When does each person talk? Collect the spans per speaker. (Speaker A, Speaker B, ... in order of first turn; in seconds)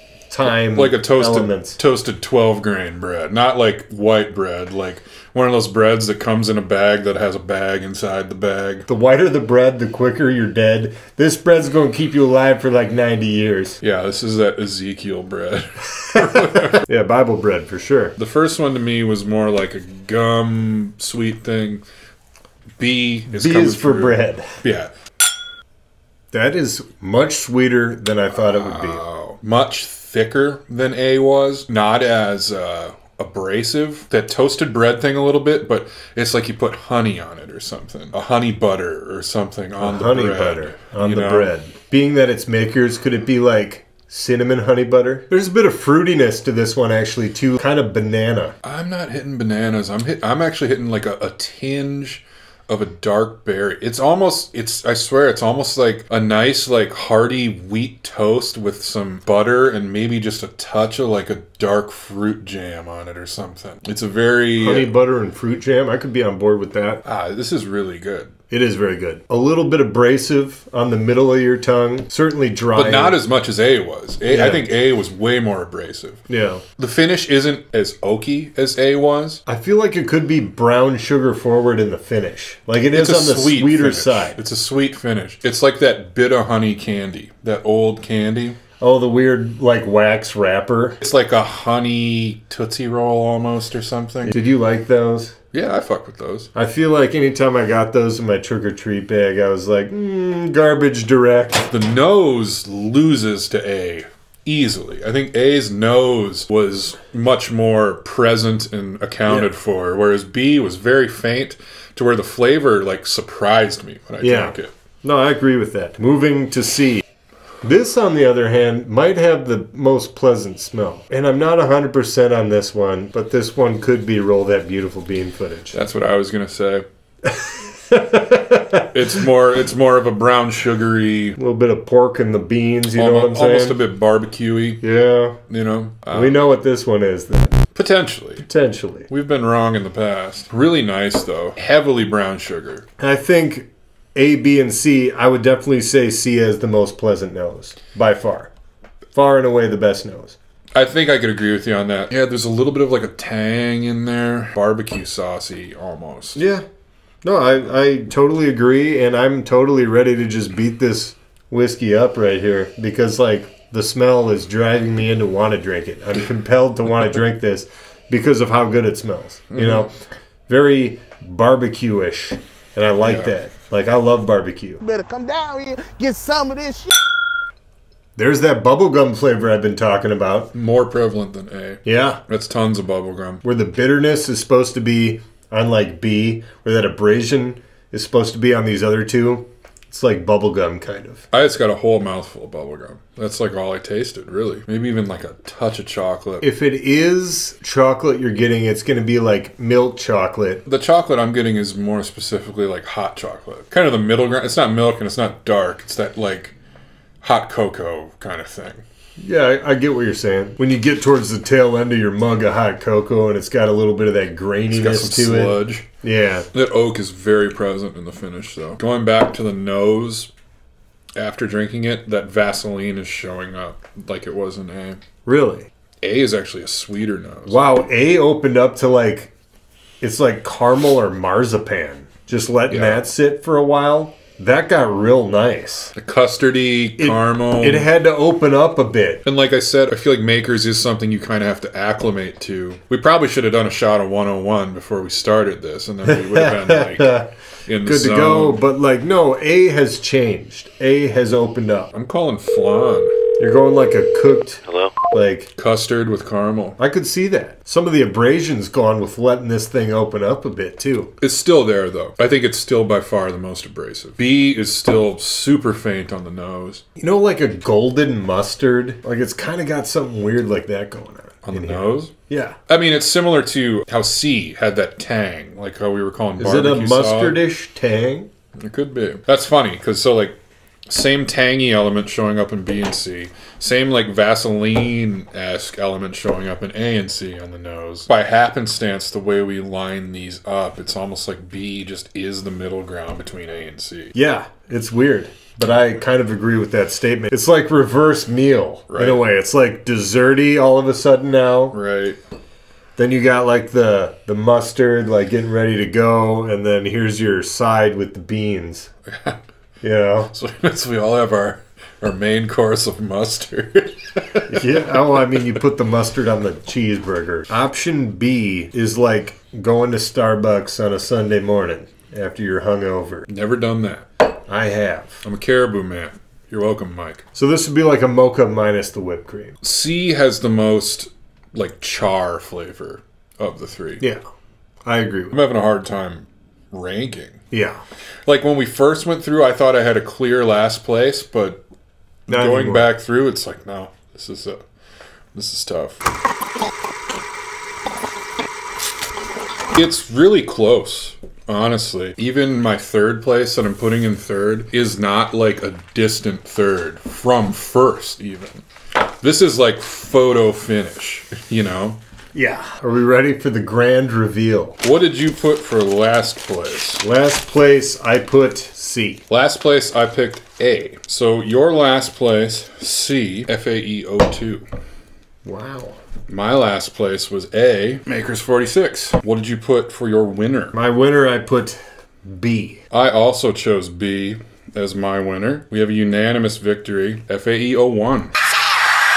Speaker A: 0.3-1.8, 8.9-13.8, 16.5-18.1, 23.3-24.6, 26.3-29.0, 39.8-48.5, 64.6-67.0, 68.5-73.2, 74.3-74.6, 76.3-76.6, 79.5-84.4, 88.8-91.0, 94.2-95.3, 96.5-101.7, 114.2-117.0, 117.6-125.8, 127.3-128.9, 131.4-133.8, 134.8-135.4, 136.1-137.6, 138.4-139.1, 143.0-148.5, 149.1-150.4, 156.3-156.6, 157.2-174.8, 178.2-180.5, 181.8-182.2, 183.4-191.2, 196.4-200.6, 209.2-216.5, 225.2-225.7, 227.5-229.3, 230.0-235.9, 237.0-239.2, 246.1-247.3, 247.8-251.9, 253.4-255.5, 256.8-261.1, 267.0-272.6, 276.4-278.3, 294.1-301.8, 303.0-308.9, 309.8-310.3, 314.5-323.3, 324.5-325.2, 327.3-329.6, 334.8-335.4, 337.5-337.8, 342.3-342.9, 362.3-364.8, 367.0-369.2, 375.4-376.0, 380.7-382.8
Speaker B: 0.4-8.9, 13.8-16.9, 18.2-21.8, 22.8-24.9, 28.3-41.5, 48.6-64.9, 67.0-68.3, 72.7-76.2, 76.8-79.4, 82.9-88.6, 91.0-94.3, 95.5-96.5, 101.7-114.7, 125.7-126.8, 128.9-131.4, 132.9-134.8, 135.5-136.4, 137.7-138.5, 139.1-142.8, 150.7-156.4, 169.5-169.9, 173.0-173.3, 180.5-183.4, 191.3-196.4, 200.7-206.5, 207.2-208.8, 214.7-215.8, 216.5-220.3, 221.2-225.0, 226.0-227.6, 232.7-233.0, 235.9-237.9, 239.2-248.6, 251.9-253.2, 255.6-256.8, 261.2-266.8, 271.4-272.1, 272.7-277.4, 278.6-280.4, 280.9-294.1, 298.9-299.2, 301.7-302.2, 309.1-309.4, 310.3-315.4, 323.3-324.1, 325.2-327.2, 329.6-334.0, 335.3-337.4, 338.2-341.6, 342.3-344.6, 345.3-346.1, 349.7-362.0, 364.8-367.0, 369.3-374.6, 376.3-380.8, 382.9-388.3
Speaker C: 174.9-176.9